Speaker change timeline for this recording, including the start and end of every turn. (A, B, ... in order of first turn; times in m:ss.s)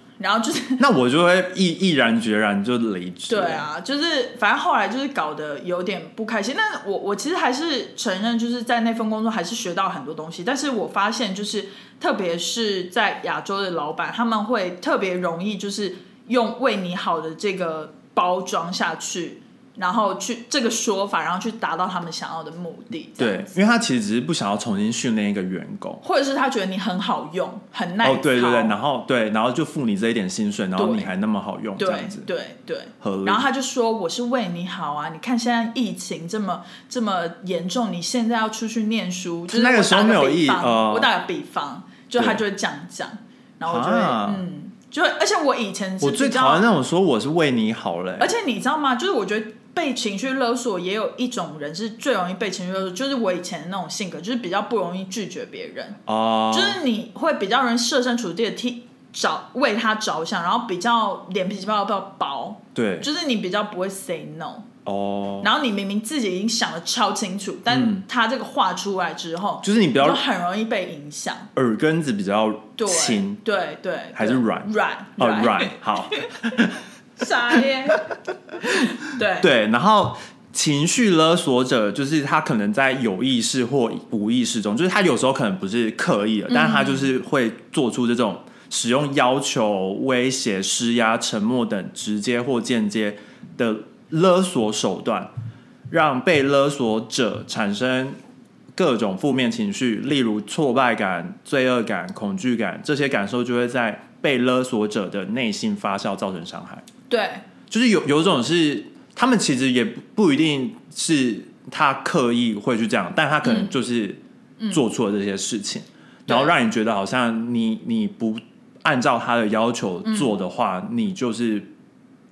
0:00.2-0:00.8 A
0:00.8-0:03.7 B
0:03.3-0:23.5 A
0:23.2-0:26.0 B
0:26.0-0:28.8 A
0:28.0-0:32.3 B
0:30.8-0:31.1 A
0:31.8-0:46.7 A
0:33.0-0:33.5 B
0:39.5-0:41.1 B
0:42.2-0:42.4 B
0:43.7-0:44.4 B
0:46.0-0:48.3 B
0:48.2-0:56.0 A
0:56.1-0:56.8 B
0:56.5-1:04.7 A
1:02.8-1:03.1 B
1:04.8-1:05.5 B
1:05.4-1:11.5 A
1:07.7-1:08.0 B
1:09.6-1:10.2 B
1:11.6-1:13.4 B
1:12.8-1:19.5 A
1:14.2-1:16.8 B
1:18.7-1:35.3 B
1:26.5-1:27.1 A
1:35.9-1:38.2 B
1:38.8-1:46.9 B
1:47.1-1:47.4 A
1:47.7-1:54.2 B
1:53.4-1:53.7 A
1:54.7-2:01.7 B
1:56.3-1:56.6 A
2:00.0-2:00.3 A